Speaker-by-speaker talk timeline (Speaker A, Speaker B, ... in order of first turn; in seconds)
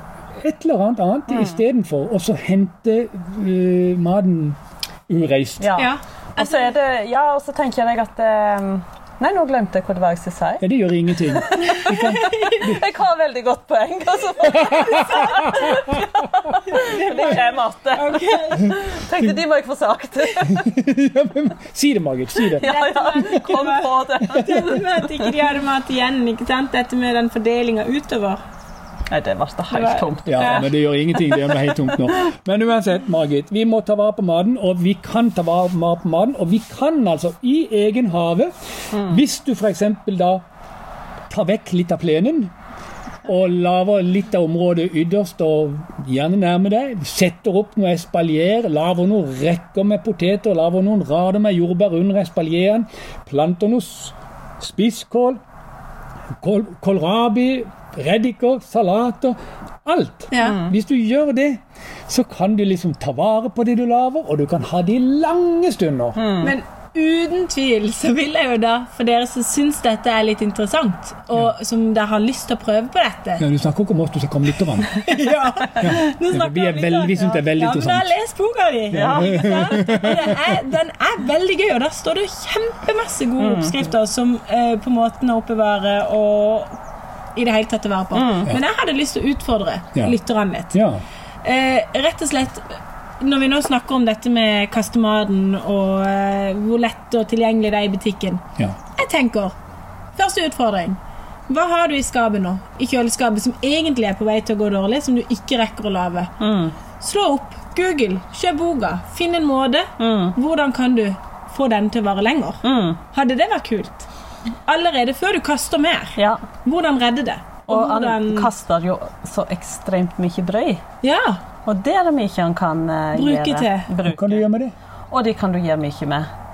Speaker A: 0.4-4.6, 5.1-5.7, 10.6-12.8, 14.4-15.5, 20.4-22.7, 24.3-24.8, 30.2-40.4, 41.3-42.5, 43.2-55.4, 56.4-66.2, 73.4-74.9, 75.8-78.1, 78.9-80.4, 90.7-91.0, 124.0-124.7
Speaker B: 1.3-1.6, 5.6-10.6, 11.2-20.6, 22.5-25.3, 29.1-32.1, 38.9-39.2, 60.4-60.8, 66.2-66.6, 78.9-80.1, 83.4-83.9, 88.1-88.5, 106.4-106.8, 110.0-110.4, 112.6-113.0, 116.2-116.4, 117.7-120.8, 121.6-124.5, 125.1-126.2
Speaker C: 5.8-6.7, 11.9-12.7, 16.6-18.7, 22.6-28.4, 29.7-30.7, 60.3-60.6, 66.4-73.4, 74.9-86.7, 87.3-90.8, 91.4-92.6, 93.2-98.4, 98.9-99.5, 100.1-101.0, 101.5-106.3, 107.0-114.1, 114.6-118.5, 121.0-121.4, 123.1-123.9